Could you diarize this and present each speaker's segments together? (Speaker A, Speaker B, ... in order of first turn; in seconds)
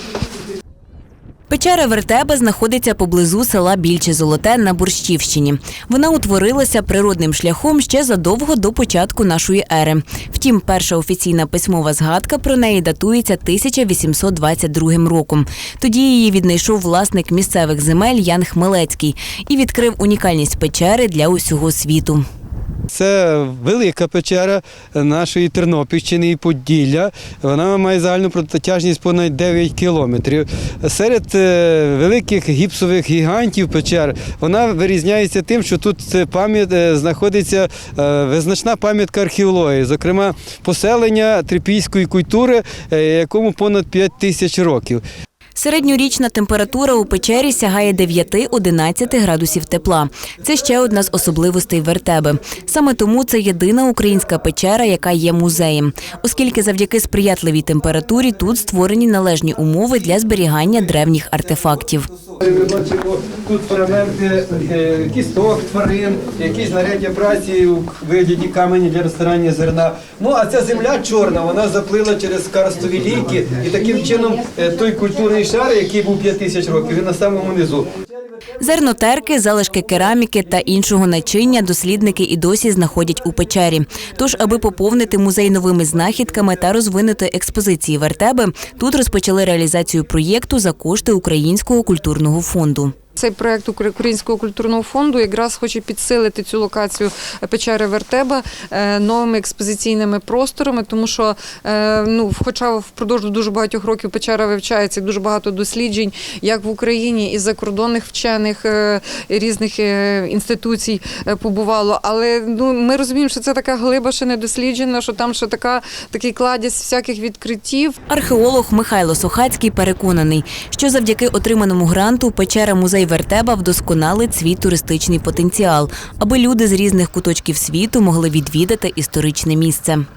Speaker A: 1.5-22.2, 45.5-62.1, 78.6-92.9, 118.1-130.0
Speaker B: 22.9-45.0, 62.4-77.9
Speaker C: 93.2-118.0